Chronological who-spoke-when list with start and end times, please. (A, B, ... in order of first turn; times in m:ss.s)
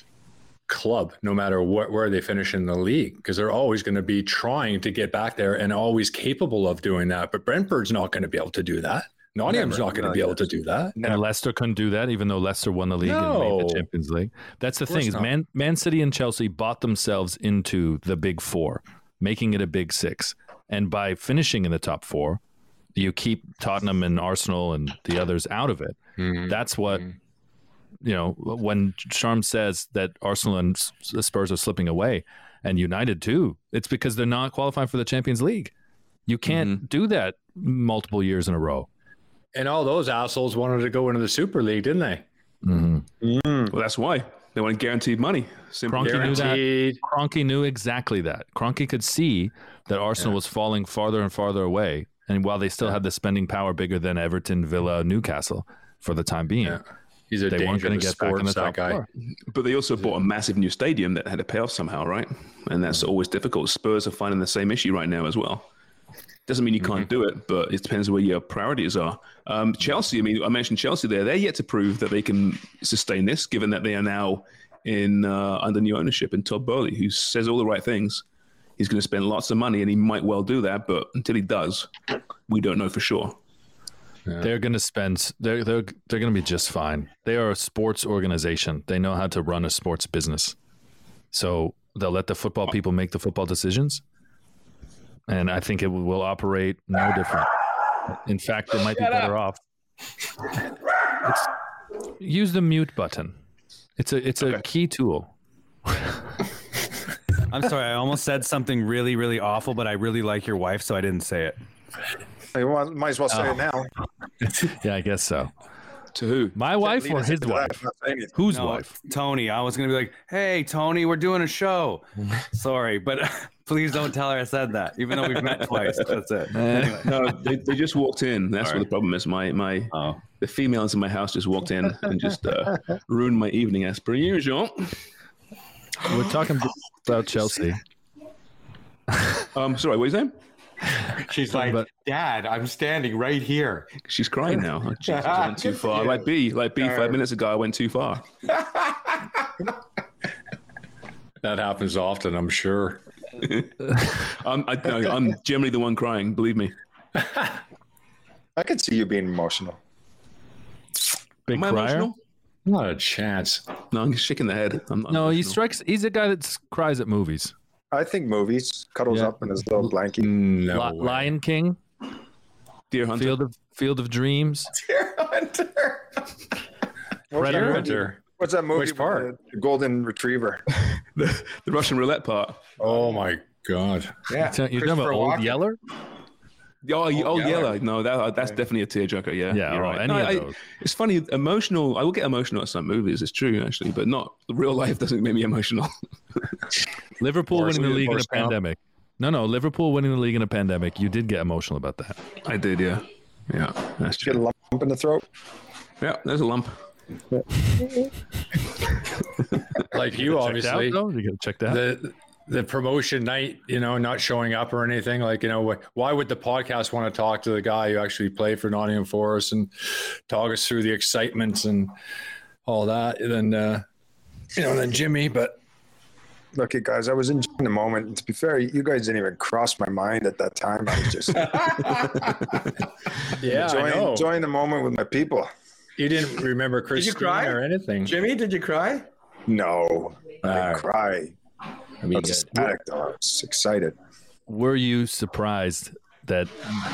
0:00.7-0:11.0 A
0:09.5-0:10.4 B
0:11.0-0:11.2 B
0:11.0-0:22.4 C
0:13.0-0:13.9 A
0:14.9-0:15.3 A
0:23.0-0:27.1 C
0:26.2-0:26.5 A
0:28.0-0:35.7 C
0:36.3-0:38.9 C
0:39.5-0:42.2 A
0:42.6-0:43.0 C
0:43.2-0:43.7 B
0:43.7-0:46.6 D
0:45.9-0:56.8 C
0:46.0-0:47.0 A
0:56.6-0:59.0 A
0:57.5-0:59.0 C
0:59.5-1:05.7 D
1:06.5-1:18.2 D
1:18.8-1:21.9 D
1:22.5-1:23.4 D
1:24.4-1:30.6 C
1:31.3-1:34.0 C
1:35.3-1:37.5 C
1:38.1-1:39.6 C
1:42.2-1:43.4 C
1:44.0-1:45.3 C
1:47.5-1:51.6 E
1:52.5-1:53.9 B
1:54.6-1:55.5 C
1:56.2-1:56.6 D
1:56.6-1:57.8 C
1:56.8-1:58.4 B
1:58.3-1:58.9 C
1:58.5-2:07.2 E
2:06.5-2:07.0 C
2:07.0-2:15.0 D
2:09.9-2:10.2 E
2:16.1-2:17.8 C
2:19.5-2:20.3 D
2:21.3-2:23.9 F
2:24.0-2:28.3 D
2:25.1-2:26.3 F
2:26.8-2:27.2 F
2:31.4-2:33.0 A
2:33.4-2:36.7 D
2:37.2-2:37.5 A
2:38.6-2:39.8 B
2:41.5-2:42.1 C
2:41.5-2:42.2 D
2:42.6-2:43.6 A
2:43.9-2:45.6 D
2:45.1-2:47.5 C
2:47.9-2:50.3 B
2:50.2-2:51.3 A
2:50.7-2:51.8 C
2:52.9-2:53.4 D
2:53.2-2:54.7 C
2:54.7-2:56.1 F
2:57.3-3:00.6 B
2:57.4-2:58.2 A
2:57.4-2:57.8 C
2:58.7-2:59.3 A
3:01.2-3:02.7 D
3:02.8-3:04.2 A
3:04.3-3:05.6 F
3:04.5-3:05.8 C
3:06.8-3:16.5 D
3:07.2-3:07.7 F
3:09.5-3:10.6 C
3:17.2-3:22.2 C
3:17.5-3:18.6 A
3:22.4-3:24.4 D
3:24.2-3:25.2 B
3:26.0-3:26.8 D
3:29.9-3:31.0 A
3:30.2-3:31.8 C
3:31.7-3:41.9 A
3:42.6-3:43.8 A
3:44.5-3:45.6 A
3:46.5-3:51.9 B
3:51.4-3:52.2 F
3:53.4-3:54.3 A
3:53.5-3:55.5 B
3:56.0-3:58.1 A
3:56.9-3:59.1 F
3:59.5-4:01.4 B
4:00.4-4:00.9 A
4:02.0-4:02.7 A
4:02.2-4:03.9 B
4:04.5-4:06.6 C